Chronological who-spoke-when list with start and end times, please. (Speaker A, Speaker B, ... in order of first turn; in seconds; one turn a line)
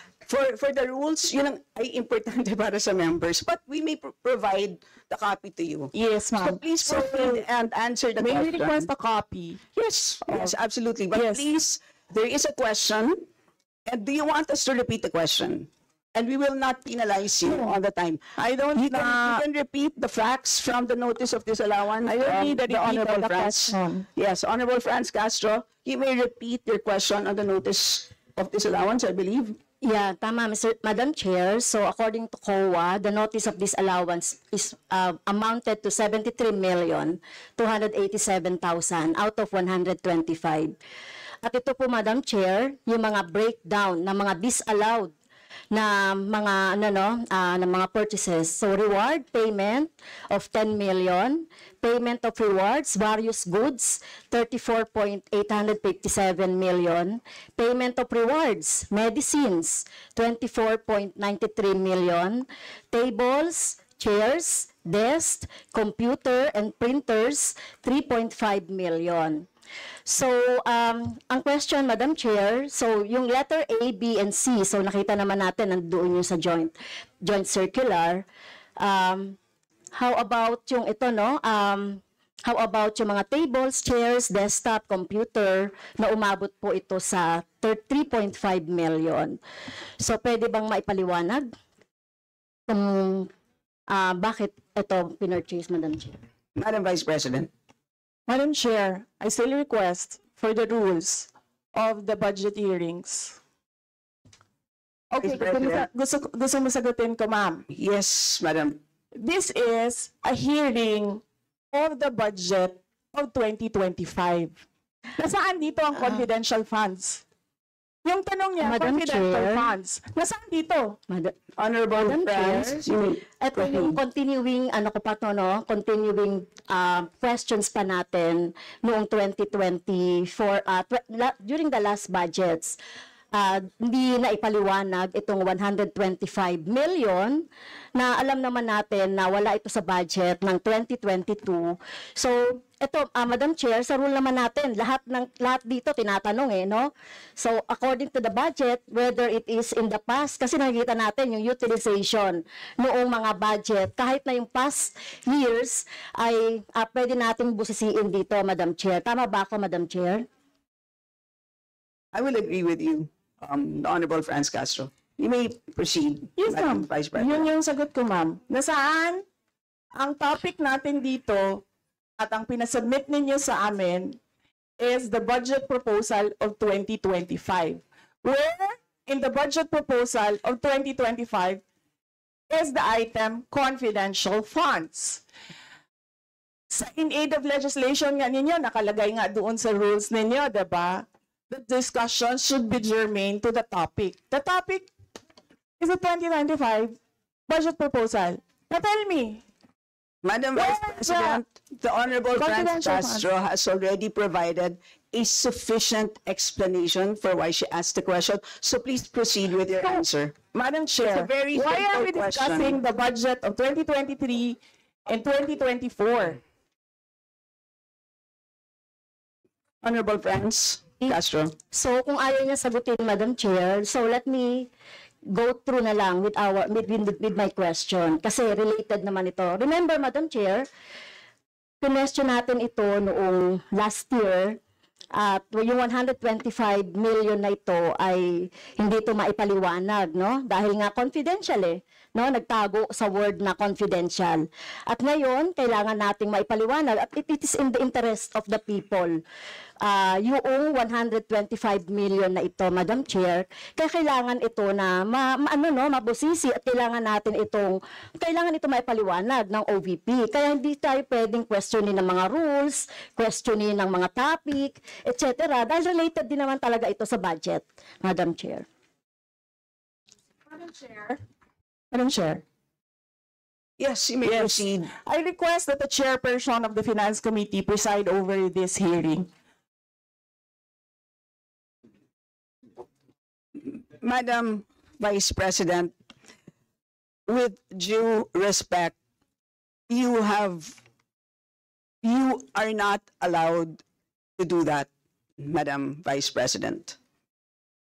Speaker A: 0.2-8.9
Speaker B: 5.9-7.5
Speaker B: 8.2-9.6
Speaker A: 9.8-13.2
Speaker B: 11.1-11.5
Speaker A: 13.9-18.2
Speaker B: 17.5-17.7
Speaker B: 18.4-19.4
Speaker A: 18.8-29.6
Speaker B: 22.1-24.1
Speaker C: 29.8-40.8
Speaker C: 41.4-45.1
Speaker C: 45.7-69.5
Speaker C: 70.1-78.3
Speaker C: 78.8-79.4
Speaker C: 80.0-89.4
Speaker C: 90.0-91.5
Speaker C: 92.7-93.3
Speaker C: 93.9-96.2
Speaker A: 96.6-97.5
Speaker B: 98.3-103.4
Speaker B: 105.1-107.7
Speaker A: 105.2-105.9
Speaker A: 107.7-108.8
Speaker B: 109.2-114.6
Speaker B: 115.2-117.2
Speaker B: 118.0-121.0
Speaker C: 118.6-119.8
Speaker C: 121.1-121.3
Speaker A: 121.6-124.0
Speaker C: 122.0-122.8
Speaker C: 123.4-132.8
Speaker C: 133.3-160.3
Speaker A: 162.1-167.5
Speaker B: 166.4-169.3
Speaker B: 170.0-171.7
Speaker B: 172.2-174.2
Speaker B: 174.8-181.6
Speaker B: 182.5-185.2
Speaker B: 186.7-194.9
Speaker B: 195.8-199.4
Speaker A: 200.2-210.3
Speaker B: 200.6-201.4
Speaker B: 202.4-203.3
Speaker B: 209.8-216.4
Speaker A: 211.0-212.8
Speaker A: 219.8-221.6
Speaker C: 221.7-224.7
Speaker C: 225.3-230.7
Speaker C: 231.8-234.6
Speaker C: 235.2-249.2
Speaker C: 249.8-268.7
Speaker B: 270.5-271.2
Speaker B: 271.9-272.4
Speaker A: 273.8-274.9
Speaker B: 274.2-279.3
Speaker A: 284.0-285.9
Speaker A: 287.3-289.0
Speaker A: 289.9-290.8
Speaker A: 292.0-293.8
Speaker A: 294.4-297.0